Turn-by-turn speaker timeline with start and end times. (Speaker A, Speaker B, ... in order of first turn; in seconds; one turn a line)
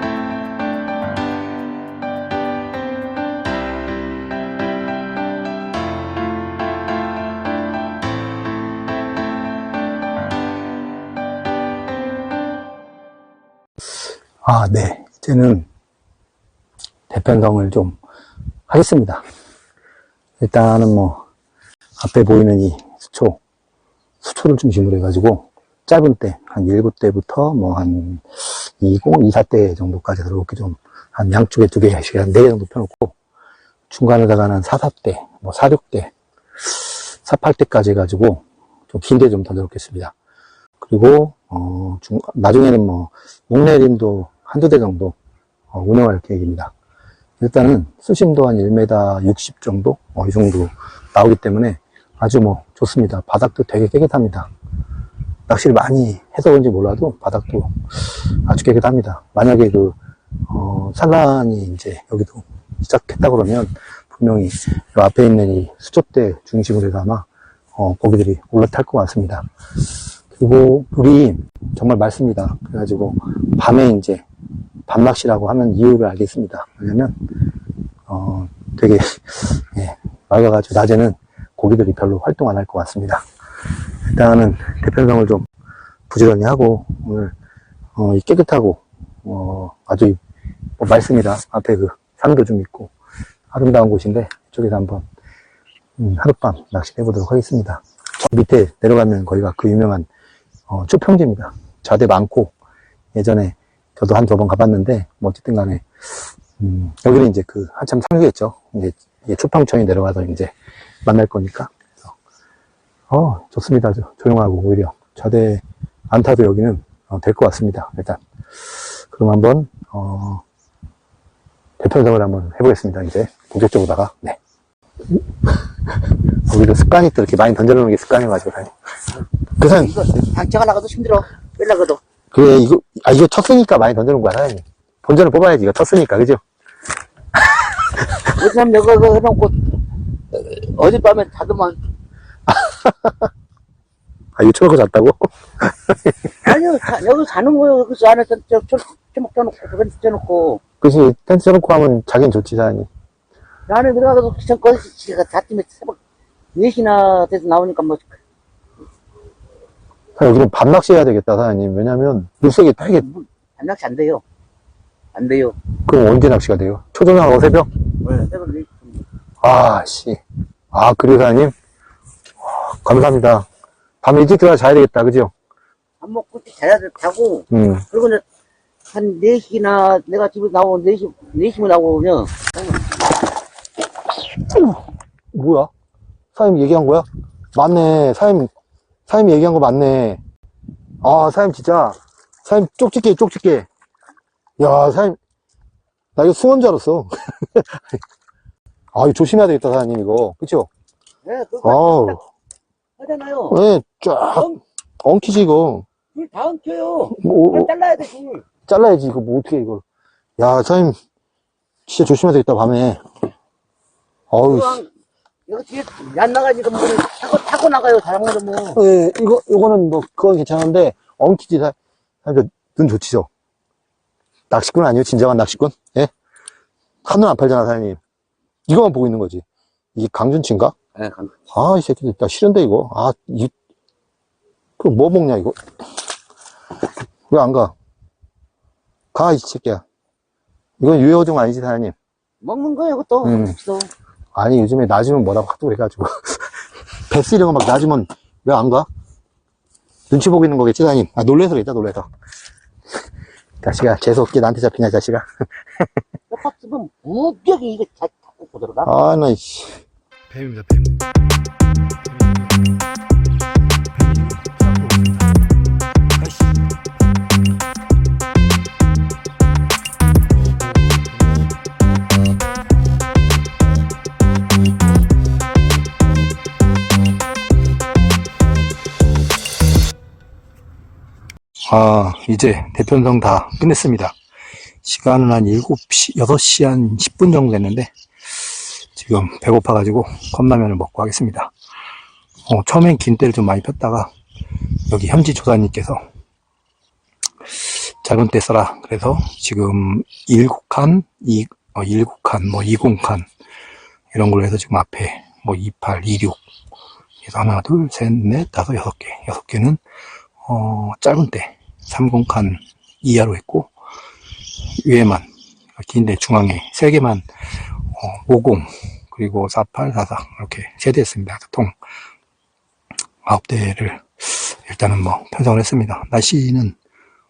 Speaker A: 14.4-15.7
Speaker A: 17.1-18.0
Speaker A: 18.7-19.2
Speaker A: 20.4-21.2
Speaker A: 22.0-23.4
Speaker A: 24.2-33.1
Speaker A: 33.9-36.1
Speaker A: 36.7-40.1
Speaker A: 40.8-45.1
Speaker A: 45.7-46.7
Speaker A: 47.4-54.5
Speaker A: 55.5-60.0
Speaker A: 60.5-69.5
Speaker A: 70.3-74.2
Speaker A: 74.9-83.2
Speaker A: 84.1-85.5
Speaker A: 86.1-87.3
Speaker A: 88.0-90.2
Speaker A: 90.8-92.9
Speaker A: 93.5-95.0
Speaker A: 96.0-100.1
Speaker A: 100.7-102.5
Speaker A: 103.1-105.8
Speaker A: 106.6-110.5
Speaker A: 111.0-112.1
Speaker A: 113.1-120.4
Speaker A: 121.8-124.4
Speaker A: 125.1-128.7
Speaker A: 129.6-130.1
Speaker B: 129.6-132.0
Speaker A: 132.3-136.4
Speaker B: 138.2-139.8
Speaker B: 140.3-141.8
Speaker A: 142.6-143.1
Speaker A: 144.3-146.1
Speaker B: 146.4-150.6
Speaker A: 150.8-152.9
Speaker B: 153.7-156.0
Speaker B: 156.5-158.1
Speaker A: 160.2-163.1
Speaker B: 163.0-164.2
Speaker B: 165.1-165.5
Speaker A: 165.8-167.8
Speaker B: 168.0-169.0
Speaker A: 169.4-170.2
Speaker A: 170.7-171.5
Speaker A: 172.4-173.5
Speaker A: 174.0-175.3
Speaker B: 176.0-178.2
Speaker A: 177.5-177.8
Speaker B: 178.9-182.8
Speaker A: 184.4-184.8
Speaker A: 185.3-185.7
Speaker A: 186.3-188.5
Speaker A: 189.1-190.2
Speaker A: 191.0-193.7
Speaker A: 194.6-195.2
Speaker A: 196.2-197.8
Speaker A: 198.9-200.7
Speaker B: 201.2-202.2
Speaker A: 201.6-202.2
Speaker B: 203.0-203.6
Speaker A: 203.5-204.5
Speaker B: 204.3-204.6
Speaker A: 205.0-205.8
Speaker B: 206.1-208.4
Speaker A: 207.1-207.7
Speaker A: 208.7-209.8
Speaker A: 210.4-211.0
Speaker A: 211.9-213.0
Speaker A: 214.3-214.8
Speaker B: 214.4-214.9
Speaker B: 215.5-218.8
Speaker A: 218.7-223.3
Speaker A: 224.5-226.1
Speaker A: 227.0-228.0
Speaker A: 228.7-229.4
Speaker A: 229.9-230.8
Speaker B: 231.0-231.3
Speaker A: 231.5-233.5
Speaker A: 234.8-235.6
Speaker A: 237.3-237.7
Speaker A: 239.1-239.8
Speaker A: 240.8-241.9
Speaker B: 242.4-243.9
Speaker A: 243.2-243.6
Speaker A: 244.3-248.9
Speaker A: 250.1-252.1
Speaker A: 253.6-255.3
Speaker B: 256.3-258.9
Speaker A: 258.8-261.0
Speaker A: 262.1-262.5
Speaker A: 263.9-265.2
Speaker A: 266.2-266.4
Speaker A: 281.7-284.1
Speaker A: 284.8-291.5
Speaker A: 292.5-294.1
Speaker A: 294.9-296.0
Speaker A: 297.6-303.3
Speaker A: 304.1-306.4
Speaker A: 307.2-309.8
Speaker A: 310.4-313.7
Speaker A: 314.8-317.3
Speaker A: 317.9-321.7
Speaker A: 323.2-326.8